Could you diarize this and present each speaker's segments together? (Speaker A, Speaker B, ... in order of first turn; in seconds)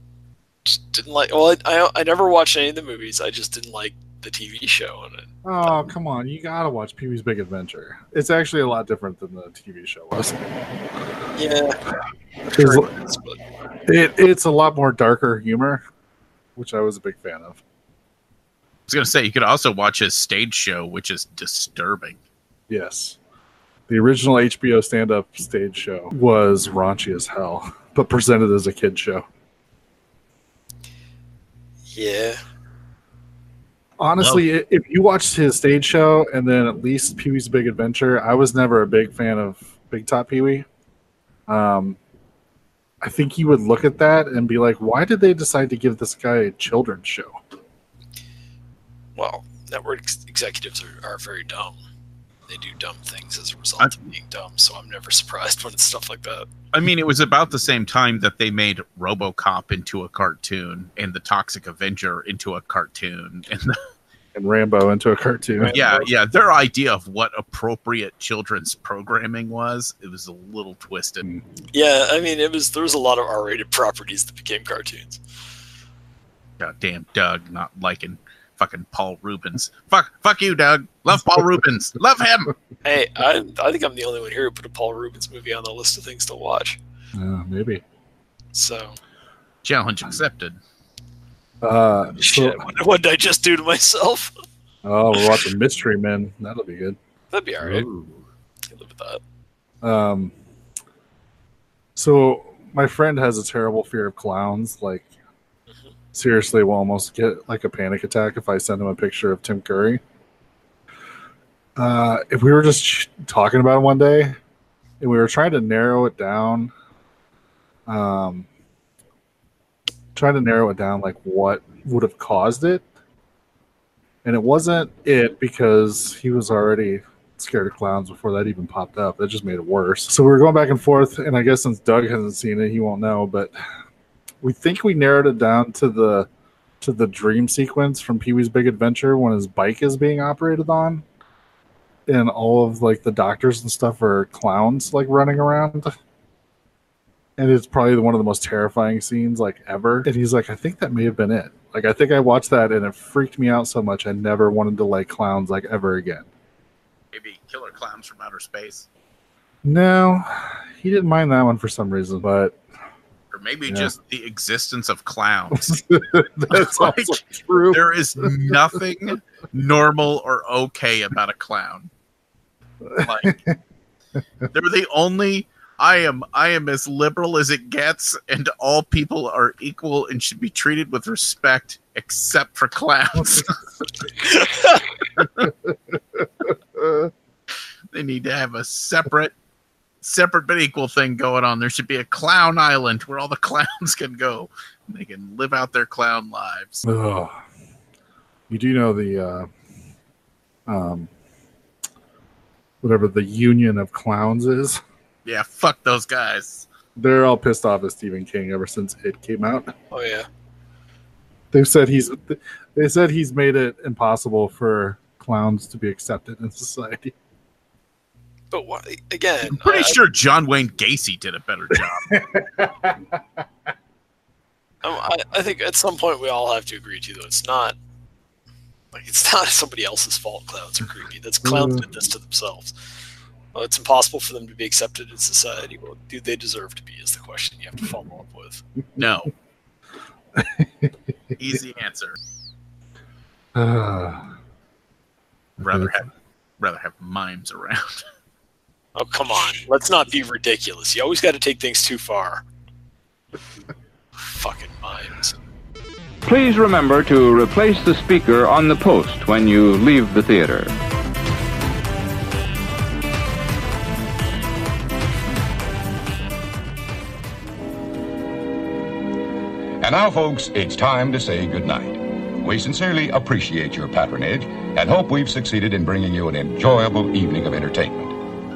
Speaker A: 0.6-5.7, 11.3-11.8, 12.5-13.4, 31.9-32.4, 49.1-51.8, 52.5-56.5, 65.6-66.1, 71.7-75.2, 82.8-86.8, 88.5-89.0, 92.2-94.3, 97.3-97.9, 98.7-99.2, 209.9-210.3, 218.5-220.0, 224.8-227.8, 228.9-232.7, 233.5-238.6, 248.9-252.4, 254.2-255.3
Speaker B: 5.4-10.4, 12.5-12.9, 13.8-15.8, 16.6-17.6, 22.7-23.2, 23.9-29.2, 34.0-40.7, 41.5-42.0, 43.0-47.4, 64.3-65.7, 87.1-87.8, 91.6-92.7, 94.8-97.0, 99.8-100.3, 102.0-105.1, 106.1-110.0, 111.8-114.4, 115.0-116.7, 117.8-118.5, 120.1-122.8, 124.2-133.5, 134.4-136.3, 136.8-141.0, 142.1-145.9, 147.4-156.3, 159.6-162.6, 165.5-168.6, 172.8-173.6, 185.4-187.1, 196.8-197.3, 198.5-199.5, 200.7-201.1, 202.8-204.8, 206.9-209.7, 211.5-217.1, 222.1-223.4, 231.4-231.8, 240.3-240.9, 243.5-244.3, 245.6-245.9
Speaker C: 18.9-22.2, 56.7-63.8, 65.7-71.2, 76.6-82.5, 89.6-90.6, 157.1-158.9, 163.3-165.7, 166.5-171.9, 173.0-173.3, 174.5-183.6, 184.1-185.5, 187.9-189.3, 190.0-196.9, 205.2-206.7, 219.5-222.2, 238.9-239.3, 241.4-242.2, 245.6-248.0
Speaker D: 256.2-260.7
Speaker E: 269.8-278.1